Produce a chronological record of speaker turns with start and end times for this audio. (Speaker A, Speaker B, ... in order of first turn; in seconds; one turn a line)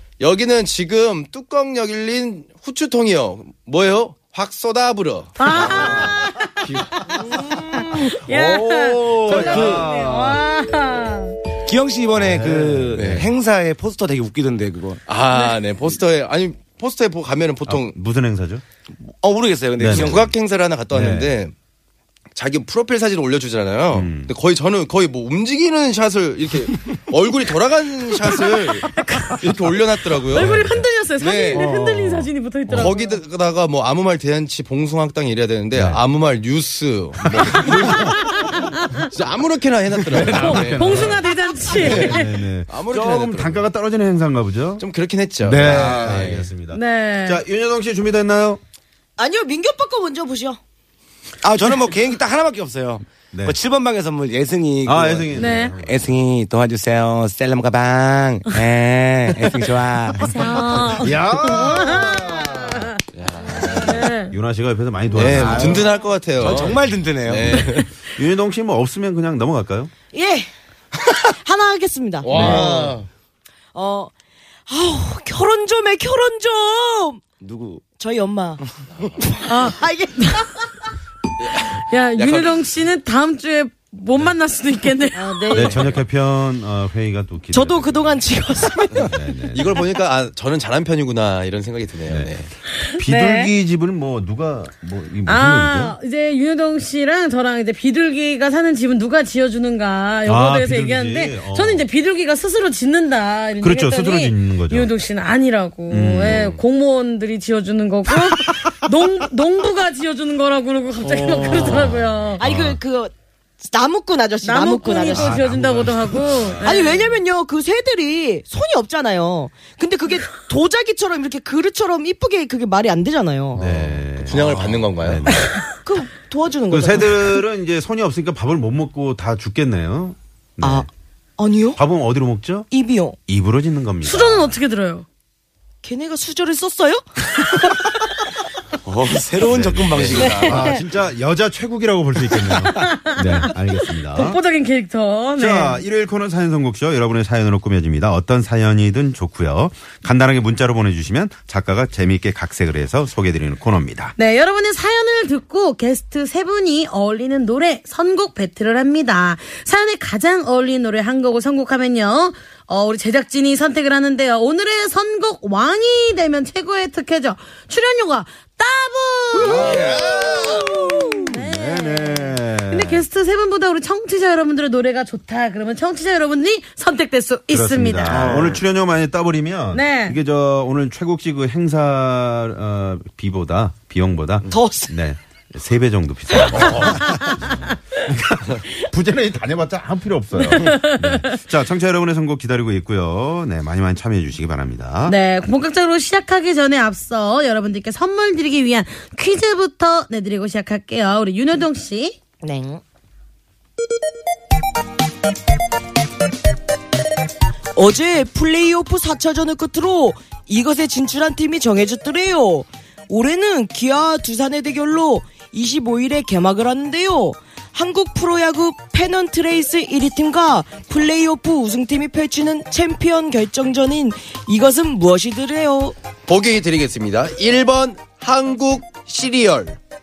Speaker A: 0.2-8.0
Speaker B: 5.4-6.5
Speaker C: 5.7-6.0
Speaker D: 5.7-6.0
Speaker D: 7.2-10.4
Speaker B: 7.7-11.3
Speaker C: 9.3-9.9
Speaker C: 11.6-15.0
Speaker D: 12.2-13.3
Speaker A: 12.9-13.3
Speaker A: 15.1-17.9
Speaker D: 17.6-18.6
Speaker C: 19.1-20.3
Speaker D: 19.8-20.3
Speaker A: 19.9-21.5
Speaker D: 20.9-21.4
Speaker A: 22.3-30.6
Speaker D: 23.9-24.3
Speaker B: 28.9-29.4
Speaker D: 30.3-30.8
Speaker B: 30.3-33.2
Speaker A: 31.2-31.7
Speaker D: 31.5-32.9
Speaker A: 32.7-38.0
Speaker D: 35.7-36.0
Speaker D: 37.2-38.9
Speaker B: 37.9-39.1
Speaker A: 39.1-41.1
Speaker D: 39.9-44.8
Speaker B: 40.3-42.3
Speaker A: 41.8-42.1
Speaker A: 42.7-43.6
Speaker A: 44.8-46.5
Speaker D: 45.4-48.6
Speaker C: 45.5-46.3
Speaker B: 46.7-47.4
Speaker E: 49.2-50.6
Speaker C: 51.4-60.9
Speaker D: 53.3-53.6
Speaker D: 54.8-56.2
Speaker B: 55.4-55.7
Speaker B: 60.2-62.8
Speaker D: 60.9-62.9
Speaker A: 63.1-64.0
Speaker B: 63.7-64.3
Speaker D: 63.8-65.9
Speaker A: 65.1-67.9
Speaker C: 65.2-67.7
Speaker D: 67.4-69.9
Speaker E: 70.1-70.5
Speaker E: 71.4-72.9
Speaker A: 72.2-73.1
Speaker D: 72.3-72.7
Speaker C: 72.3-72.8
Speaker E: 73.7-74.1
Speaker E: 74.7-77.2
Speaker C: 77.4-77.8
Speaker E: 78.0-78.6
Speaker E: 79.3-80.7
Speaker B: 79.5-80.5
Speaker A: 81.4-82.6
Speaker B: 81.9-85.8
Speaker E: 85.1-86.0
Speaker D: 85.5-88.1
Speaker E: 87.5-89.2
Speaker D: 89.0-89.8
Speaker A: 89.5-92.5
Speaker D: 92.1-96.0
Speaker B: 93.0-93.5
Speaker B: 95.2-112.4
Speaker D: 100.2-101.8
Speaker D: 103.6-104.9
Speaker D: 105.9-106.5
Speaker A: 106.3-106.5
Speaker D: 111.0-112.8
Speaker E: 112.4-113.1
Speaker E: 113.6-115.3
Speaker B: 114.4-116.8
Speaker D: 115.1-117.0
Speaker E: 116.6-123.6
Speaker D: 123.5-125.6
Speaker A: 124.2-125.4
Speaker C: 124.3-124.8
Speaker E: 125.8-127.4
Speaker D: 126.7-130.9
Speaker E: 130.6-130.9
Speaker E: 131.4-131.8
Speaker D: 131.8-132.7
Speaker E: 132.7-133.2
Speaker D: 133.2-134.5
Speaker B: 134.0-135.0
Speaker E: 135.8-137.0
Speaker C: 138.8-140.7
Speaker D: 139.4-144.4
Speaker A: 139.9-140.6
Speaker B: 140.3-140.7
Speaker B: 142.8-143.5
Speaker B: 144.1-145.8
Speaker D: 145.4-154.1
Speaker B: 154.2-169.9
Speaker D: 169.4-173.0
Speaker C: 169.5-170.1
Speaker A: 169.6-170.7
Speaker B: 171.2-178.4
Speaker D: 177.5-195.2
Speaker C: 178.1-178.6
Speaker B: 179.7-180.2
Speaker E: 184.5-184.9
Speaker A: 186.6-186.8
Speaker B: 190.4-191.3
Speaker B: 195.1-202.2
Speaker E: 202.4-202.8
Speaker E: 207.7-225.9
Speaker A: 226.3-229.8